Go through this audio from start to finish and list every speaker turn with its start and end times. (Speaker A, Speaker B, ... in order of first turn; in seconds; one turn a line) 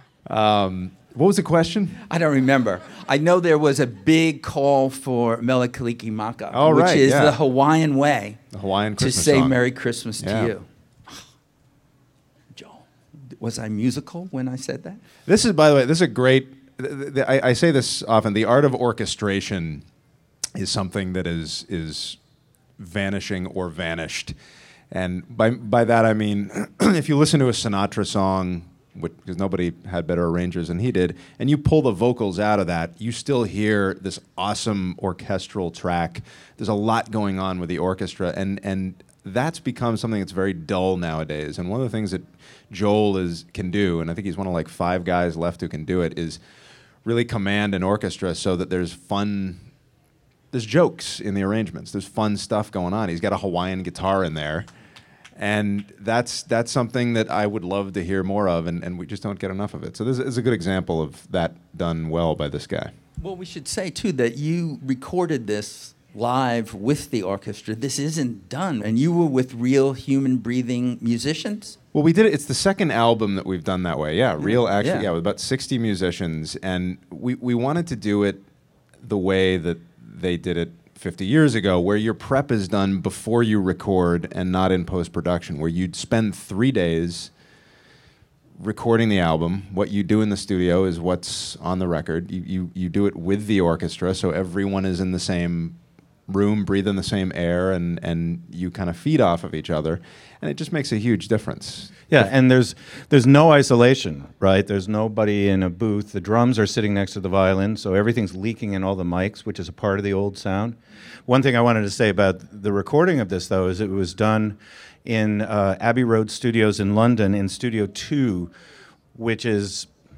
Speaker A: 0.2-2.0
Speaker B: 2.1-8.4
Speaker A: 6.5-7.4
Speaker A: 8.5-9.6
Speaker B: 9.0-11.2
Speaker A: 10.2-10.5
Speaker B: 12.5-15.0
Speaker A: 15.2-19.9
Speaker A: 20.5-22.2
Speaker A: 22.8-24.3
Speaker A: 24.9-46.4
Speaker A: 47.0-49.6
Speaker A: 50.5-54.7
Speaker A: 55.4-62.9
Speaker B: 63.2-71.8
Speaker A: 71.9-78.4
Speaker B: 74.4-75.1
Speaker A: 79.0-87.3
Speaker A: 88.6-102.3
Speaker C: 102.1-118.5
Speaker C: 119.1-119.9